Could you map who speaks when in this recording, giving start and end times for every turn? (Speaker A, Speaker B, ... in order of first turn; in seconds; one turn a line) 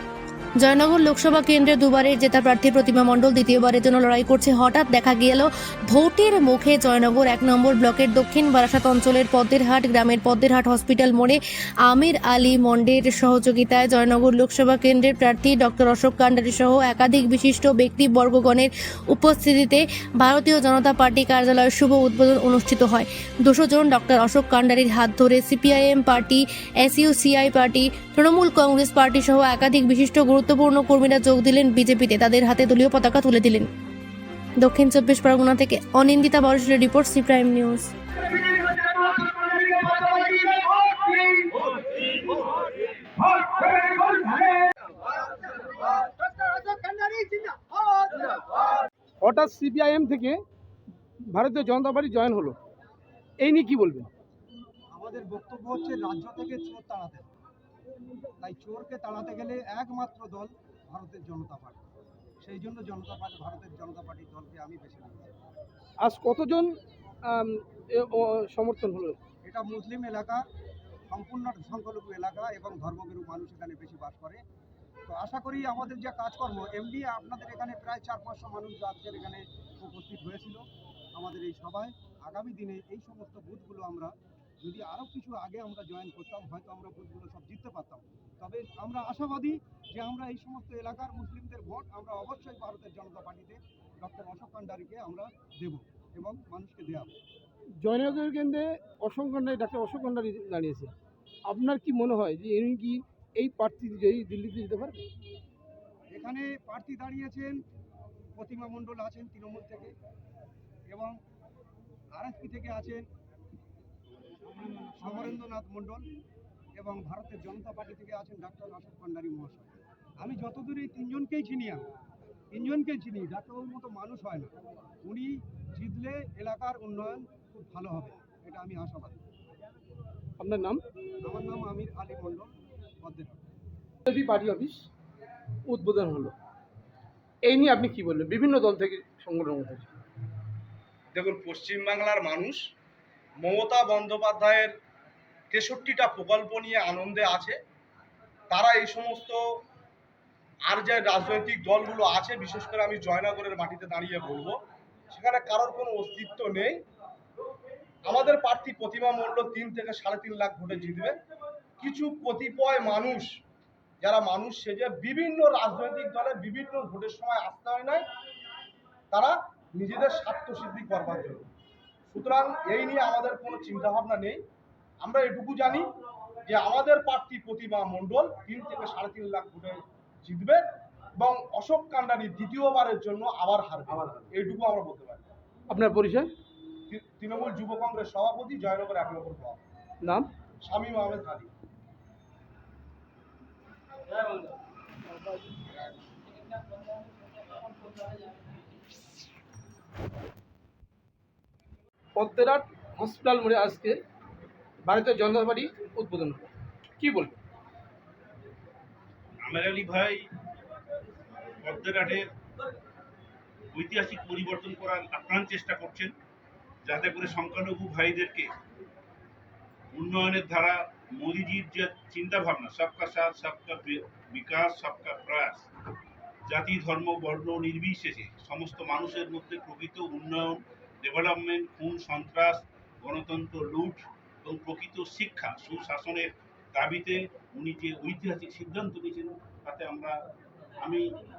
Speaker A: 0.6-33.7
Speaker A: 34.6-37.9
Speaker B: 41.2-42.0
Speaker B: 43.1-44.7
Speaker B: 49.2-50.4
Speaker B: 51.2-52.6
Speaker B: 53.4-54.1
Speaker C: 54.9-57.3
Speaker C: 58.4-61.8
Speaker C: 62.4-65.3
Speaker B: 66.0-66.7
Speaker B: 67.2-69.2
Speaker C: 69.5-70.4
Speaker C: 71.1-74.4
Speaker C: 75.1-80.6
Speaker C: 81.2-97.2
Speaker B: 97.8-100.9
Speaker B: 101.5-105.1
Speaker C: 106.1-107.6
Speaker C: 108.4-109.9
Speaker C: 110.9-111.2
Speaker C: 112.1-113.0
Speaker C: 114.9-116.1
Speaker C: 116.8-121.9
Speaker C: 122.5-124.5
Speaker C: 125.0-129.2
Speaker B: 130.4-130.8
Speaker C: 131.2-133.4
Speaker B: 134.1-134.9
Speaker B: 135.7-136.3
Speaker B: 137.4-139.9
Speaker D: 141.1-142.7
Speaker D: 143.4-144.7
Speaker D: 145.5-147.6
Speaker D: 148.5-149.4
Speaker D: 150.7-156.8
Speaker D: 158.1-161.2
Speaker D: 161.8-163.4
Speaker D: 164.0-168.1
Speaker D: 169.1-171.5
Speaker D: 172.1-174.4
Speaker D: 175.0-175.9
Speaker D: 176.5-180.6
Speaker D: 181.2-185.3
Speaker B: 185.7-186.3
Speaker D: 186.9-189.6
Speaker B: 190.0-190.3
Speaker D: 190.6-191.5
Speaker B: 195.1-195.6
Speaker B: 202.2-204.0
Speaker B: 204.8-207.4
Speaker E: 209.4-210.3
Speaker E: 211.6-212.3
Speaker E: 213.7-216.2
Speaker E: 216.8-218.5
Speaker E: 219.9-225.7
Speaker E: 226.5-240.2
Speaker E: 240.8-241.2